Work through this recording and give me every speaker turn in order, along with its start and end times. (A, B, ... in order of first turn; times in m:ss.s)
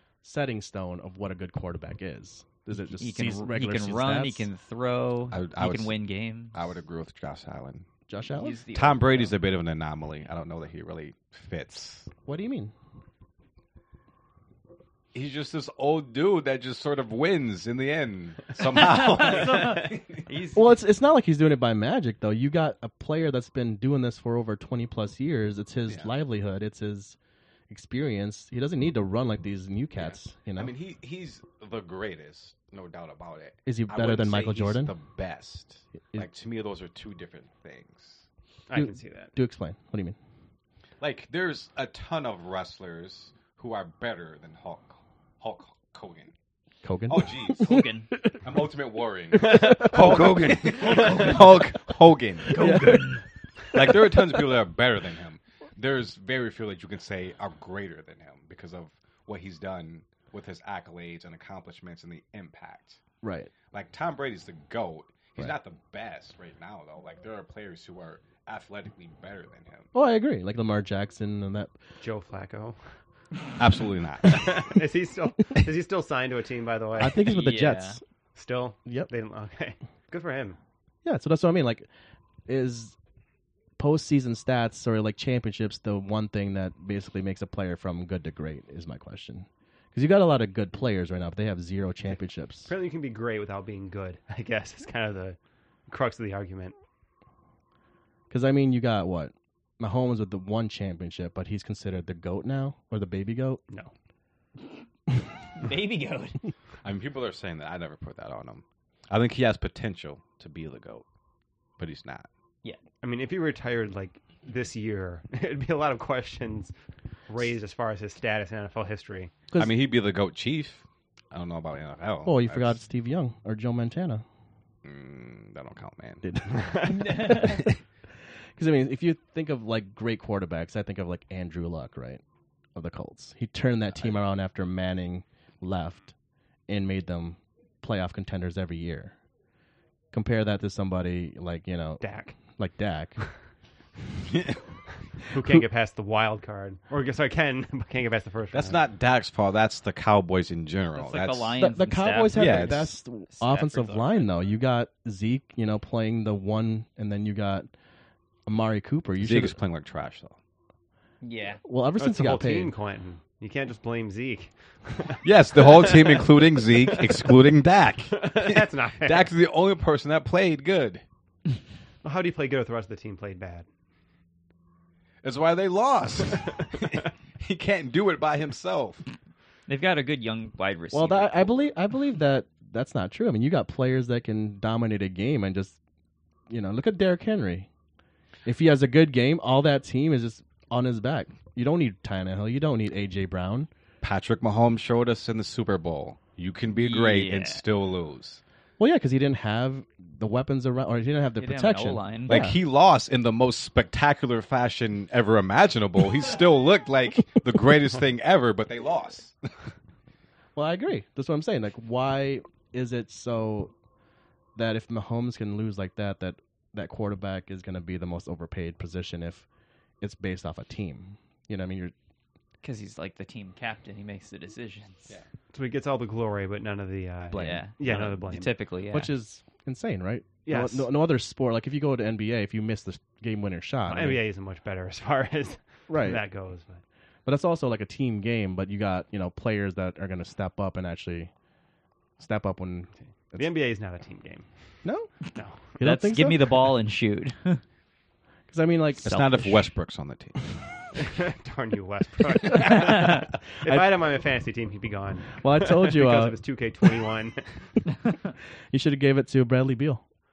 0:00.2-0:04.5 A
0:03.0-0:06.6 B
0:05.3-0:06.0 C
0:06.5-0:07.8 C
0:08.1-0:08.6 A
0:08.4-0:09.3 B
0:08.7-0:12.1 C
0:12.2-0:12.7 A
0:15.1-0:20.2 C
0:18.7-0:20.8 B
0:20.6-0:27.2 A
0:27.7-0:30.7 A
0:30.0-0:38.3 C
0:33.7-0:34.9 A
0:38.7-0:39.3 D
0:38.7-0:40.2 A
0:41.0-0:46.3 C
0:46.8-0:48.4 A
0:47.1-0:47.8 C
0:47.6-0:48.1 B
0:48.4-0:53.0 C
0:49.3-0:51.2 A
0:49.8-0:50.5 D
0:50.8-0:51.6 B
0:51.0-0:51.3 D
0:52.5-0:53.2 B
0:52.5-0:53.1 A
0:53.7-1:03.0 C
1:03.2-1:03.5 A
1:03.7-1:09.9 C
1:09.9-1:11.7 A
1:12.0-1:12.8 D
1:13.6-1:14.6 C
1:14.2-1:17.2 D
1:17.0-1:18.0 A
1:17.2-1:18.0 B
1:18.4-1:20.6 D
1:21.0-1:21.9 A
1:22.5-1:23.0 A
1:23.8-1:32.7 A
1:32.7-1:36.8 D
1:38.3-1:43.6 A
1:45.6-1:46.4 B
1:46.8-1:51.0 C
1:51.8-1:52.3 C
1:53.0-1:56.7 D
1:57.3-1:59.3 D
1:59.6-2:02.8 C
2:02.2-2:04.2 A
2:04.8-2:06.5 C
2:06.2-2:07.6 A
2:06.5-2:07.4 D
2:06.9-2:07.6 B
2:08.6-2:12.2 A
2:12.8-2:16.2 A
2:16.7-2:19.2 A
2:20.1-2:23.2 A
2:22.0-2:22.4 D
2:24.3-2:24.6 C
2:25.2-2:28.8 D
2:28.5-2:31.5 C
2:31.0-2:32.8 B
2:31.6-2:37.7 A
2:32.3-2:32.9 C
2:33.3-2:34.3 B
2:38.5-2:39.6 A
2:39.2-2:40.4 C
2:41.2-2:41.6 B
2:41.6-2:42.7 A
2:42.0-2:47.2 D
2:45.2-2:51.0 C
2:48.1-2:49.3 D
2:52.0-2:53.7 D
2:55.2-2:59.0 C
2:59.7-3:01.5 B
3:00.9-3:05.8 A
3:06.5-3:07.7 A
3:08.4-3:13.7 A
3:14.0-3:18.4 C
3:16.7-3:17.6 B
3:18.8-3:22.6 A
3:21.4-3:22.5 B
3:22.3-3:29.7 C
3:30.6-3:33.7 A
3:34.6-3:39.5 A
3:40.0-3:41.9 A
3:42.6-3:45.2 B
3:45.5-3:48.5 D
3:47.3-3:47.6 A
3:47.3-3:49.1 B
3:48.9-3:54.2 A
3:50.5-3:50.9 D
3:53.9-3:56.8 D
3:55.9-3:56.2 A
3:57.3-4:01.3 A
4:02.2-4:03.5 A
4:03.4-4:04.5 D
4:04.8-4:05.1 A
4:05.4-4:05.7 D
4:05.8-4:06.4 A
4:05.8-4:07.6 B
4:08.5-4:09.6 A
4:09.0-4:10.4 C
4:09.0-4:09.6 B
4:10.9-4:17.7 D
4:12.6-4:13.9 A
4:15.4-4:16.4 A
4:18.7-4:20.0 A